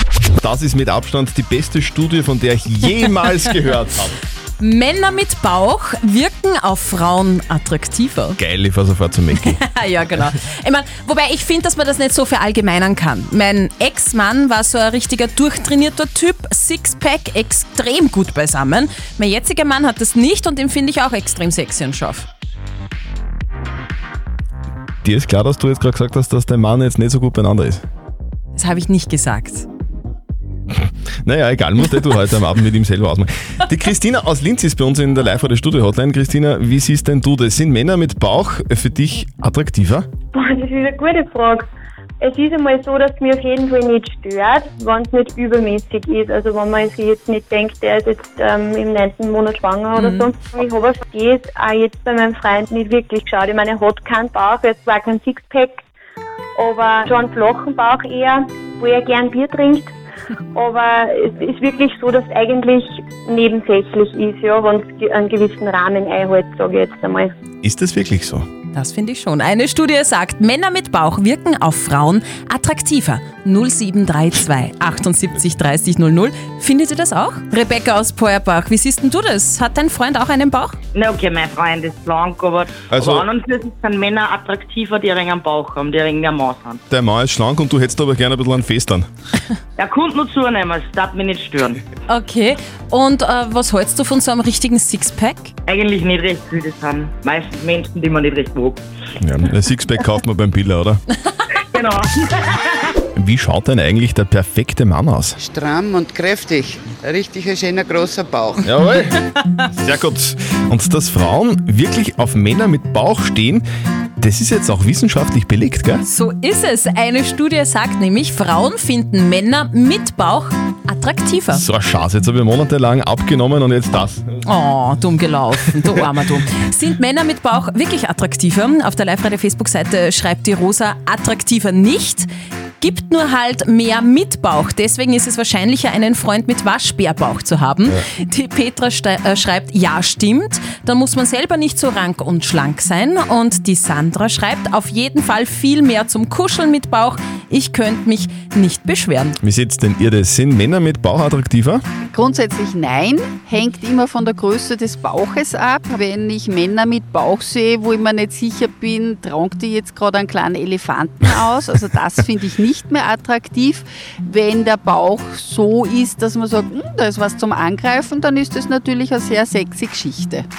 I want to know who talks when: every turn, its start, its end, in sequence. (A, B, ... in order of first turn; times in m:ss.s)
0:00.4-0:04.2 A
0:04.6-0:08.4 B
0:08.4-0:09.6 A
0:09.4-0:22.3 B
0:25.0-0:27.8 A
0:28.6-0:29.7 B
0:30.7-0:40.1 A
0:40.4-0:41.7 C
0:42.2-0:55.8 C
0:50.0-0:50.3 B
0:56.6-0:59.9 C
1:00.6-1:07.3 C
1:07.6-1:08.5 A
1:08.7-1:20.8 B
1:21.0-1:26.8 D
1:22.9-1:23.3 A
1:26.9-1:29.1 A
1:29.8-1:31.8 D
1:32.1-1:35.5 B
1:35.7-1:38.8 D
1:39.2-1:41.0 A
1:41.7-1:42.3 D
1:43.2-1:45.4 A
1:45.4-1:48.6 E
1:48.6-1:53.6 A
1:54.2-1:56.0 A
1:56.0-2:01.6 B
2:01.5-2:04.4 A
2:04.4-2:12.3 B
2:12.8-2:29.4 B
2:29.4-2:31.8 A
2:32.1-2:50.5 F